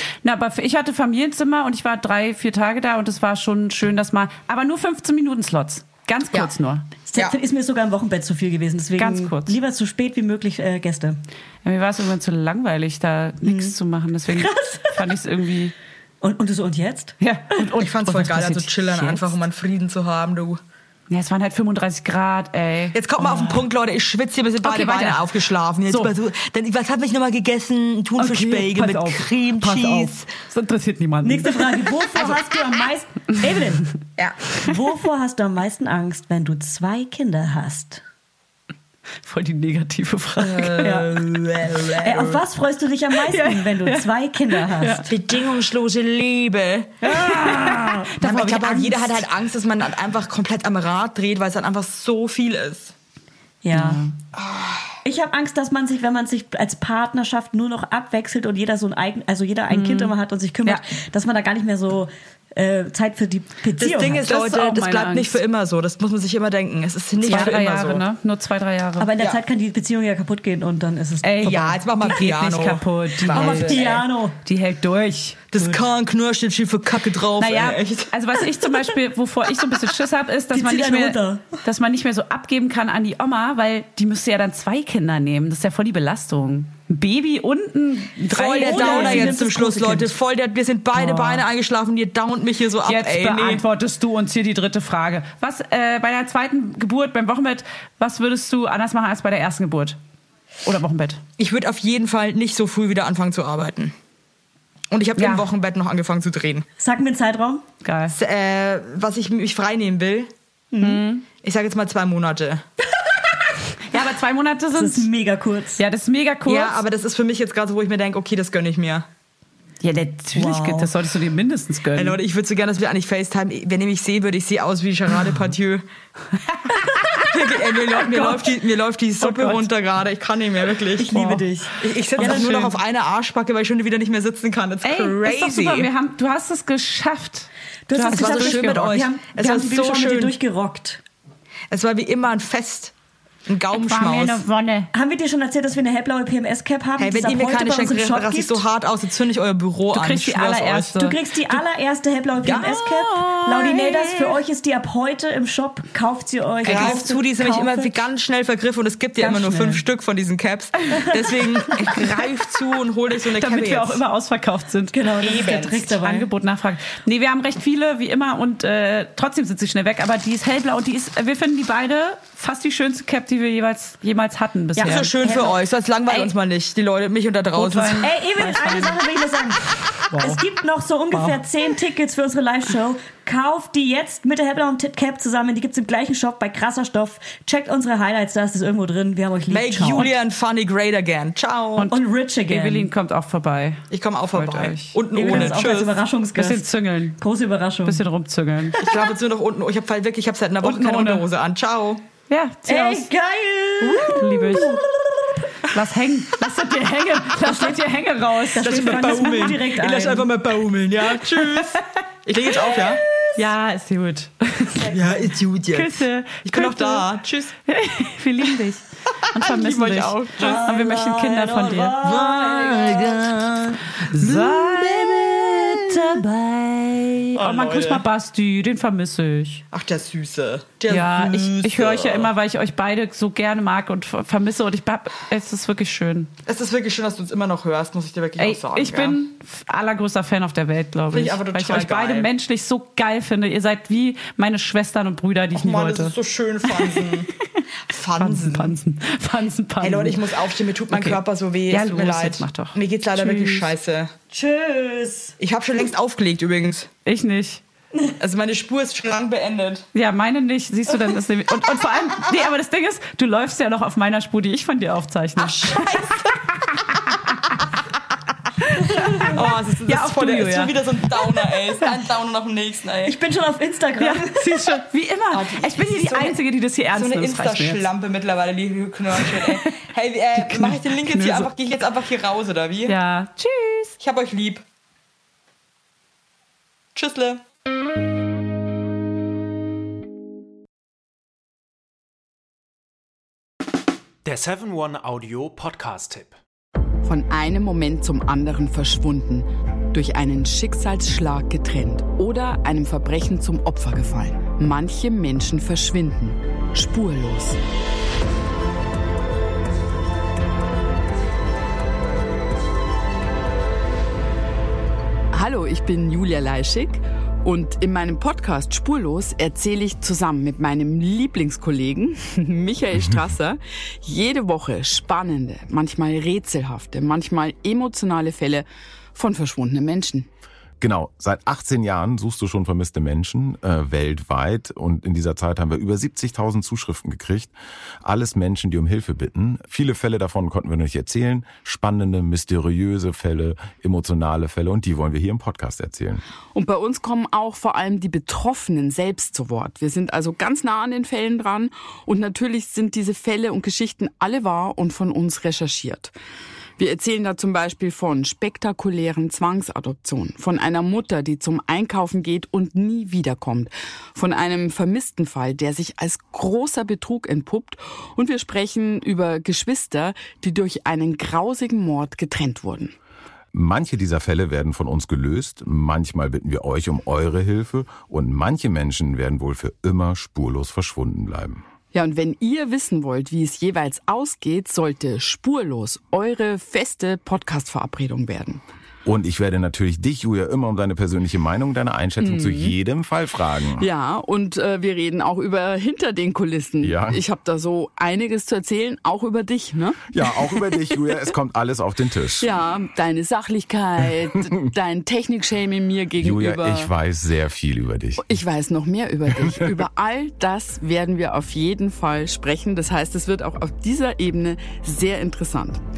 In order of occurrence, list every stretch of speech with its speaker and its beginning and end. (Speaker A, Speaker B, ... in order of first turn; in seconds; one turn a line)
Speaker A: 0.2-6.8
Speaker B: 7.1-11.2
Speaker A: 9.0-9.6
Speaker A: 11.6-15.7
Speaker B: 13.4-13.8
Speaker B: 14.3-15.1
Speaker B: 16.2-17.1
Speaker A: 17.2-19.3
Speaker C: 17.7-20.6
Speaker A: 21.1-23.6
Speaker C: 22.9-30.3
Speaker A: 24.6-25.3
Speaker A: 25.9-26.1
Speaker A: 28.2-32.3
Speaker B: 31.2-34.0
Speaker B: 34.6-38.0
Speaker A: 39.2-41.0
Speaker C: 40.4-42.4
Speaker B: 40.8-41.1
Speaker B: 42.0-45.1
Speaker A: 43.1-45.1
Speaker C: 45.1-47.0
Speaker A: 47.0-49.0
Speaker B: 47.0-49.1
Speaker C: 48.2-52.9
Speaker B: 53.6-54.0
Speaker A: 53.7-54.1
Speaker C: 54.3-54.9
Speaker B: 55.0-64.3
Speaker A: 59.7-60.8
Speaker C: 63.8-68.0
Speaker A: 64.2-65.4
Speaker A: 67.2-69.1
Speaker B: 69.0-71.8
Speaker A: 71.2-73.9
Speaker C: 71.4-74.0
Speaker B: 73.3-74.4
Speaker A: 74.4-75.4
Speaker C: 75.5-78.1
Speaker A: 77.4-89.4
Speaker B: 80.5-81.5
Speaker C: 88.3-93.6
Speaker B: 88.6-90.1
Speaker A: 90.9-91.4
Speaker A: 92.8-100.0
Speaker A: 100.6-101.2
Speaker C: 101.4-103.9
Speaker C: 104.9-106.7
Speaker A: 105.2-105.5
Speaker B: 106.8-107.6
Speaker A: 107.8-108.2
Speaker C: 108.1-110.3
Speaker B: 110.7-111.0
Speaker A: 110.8-111.2
Speaker C: 111.4-112.6
Speaker A: 113.9-115.1
Speaker B: 114.7-115.8
Speaker A: 115.8-116.8
Speaker C: 116.5-119.1
Speaker A: 119.8-122.2
Speaker B: 120.3-120.9
Speaker C: 121.9-125.8
Speaker A: 126.5-127.3
Speaker C: 127.2-131.1
Speaker A: 128.0-128.5
Speaker A: 129.2-129.7
Speaker B: 131.0-132.8
Speaker A: 131.1-131.4
Speaker C: 131.8-135.9
Speaker A: 132.2-132.5
Speaker A: 134.8-138.9
Speaker B: 137.9-141.0
Speaker C: 138.1-140.4
Speaker C: 141.7-142.9
Speaker C: 143.4-144.4
Speaker A: 143.7-144.9
Speaker B: 144.9-148.6
Speaker C: 147.0-151.0
Speaker A: 149.9-151.6
Speaker B: 150.9-157.9
Speaker C: 152.4-153.7
Speaker A: 152.5-154.3
Speaker C: 156.6-164.0
Speaker A: 156.6-157.0
Speaker B: 159.2-159.8
Speaker A: 161.8-162.2
Speaker A: 163.3-165.0
Speaker B: 164.9-166.3
Speaker C: 165.2-165.9
Speaker A: 166.0-175.1
Speaker B: 174.7-175.6
Speaker C: 174.8-178.1
Speaker A: 177.5-179.0
Speaker B: 178.0-190.1
Speaker A: 180.1-180.4
Speaker A: 181.1-181.4
Speaker C: 189.5-191.9
Speaker A: 191.8-195.6
Speaker B: 191.9-192.9
Speaker C: 193.9-196.0
Speaker B: 195.1-198.0
Speaker A: 196.3-197.2
Speaker A: 197.8-198.8
Speaker B: 198.8-199.1
Speaker C: 198.8-202.0
Speaker A: 200.6-201.3
Speaker A: 202.3-203.1
Speaker B: 202.7-205.5
Speaker C: 203.8-204.6
Speaker A: 203.8-204.8
Speaker A: 205.7-209.6
Speaker B: 207.4-207.7
Speaker B: 208.5-210.3
Speaker C: 208.6-213.0
Speaker A: 211.2-211.8
Speaker A: 213.3-214.9
Speaker B: 214.8-215.2
Speaker C: 214.9-217.5
Speaker A: 215.7-217.1
Speaker A: 217.7-222.0
Speaker C: 219.3-220.7
Speaker B: 220.4-223.3
Speaker C: 222.0-226.2
Speaker A: 224.1-229.6
Speaker C: 227.3-228.0
Speaker C: 229.7-232.3
Speaker A: 230.9-236.3
Speaker C: 236.4-239.2
Speaker A: 238.4-247.6
Speaker C: 241.1-242.3
Speaker C: 245.5-247.3
Speaker C: 247.9-248.8
Speaker A: 248.2-250.2
Speaker C: 249.8-254.1
Speaker A: 250.9-253.7
Speaker B: 254.3-255.3
Speaker C: 255.4-256.9
Speaker A: 257.0-257.6
Speaker C: 258.2-259.9
Speaker A: 259.9-267.5
Speaker C: 265.4-266.3
Speaker A: 268.8-270.7
Speaker B: 268.9-269.3
Speaker C: 269.3-273.2
Speaker B: 273.0-274.6
Speaker A: 274.0-277.9
Speaker B: 275.3-276.3
Speaker C: 276.9-282.9
Speaker A: 279.1-279.8
Speaker A: 280.4-281.5
Speaker A: 282.9-284.0
Speaker C: 284.0-284.6
Speaker C: 286.9-287.4
Speaker D: 294.2-296.4
Speaker E: 297.0-307.6
Speaker E: 315.3-330.3
Speaker F: 330.8-346.2
Speaker E: 346.5-356.1
Speaker E: 356.8-372.9
Speaker F: 373.5-381.6
Speaker E: 381.9-388.6
Speaker F: 389.0-393.9
Speaker E: 392.2-392.8
Speaker E: 393.8-401.2
Speaker F: 396.8-397.2
Speaker F: 400.1-402.5
Speaker E: 402.4-406.9
Speaker F: 406.2-408.3
Speaker E: 408.2-415.8
Speaker F: 409.4-409.7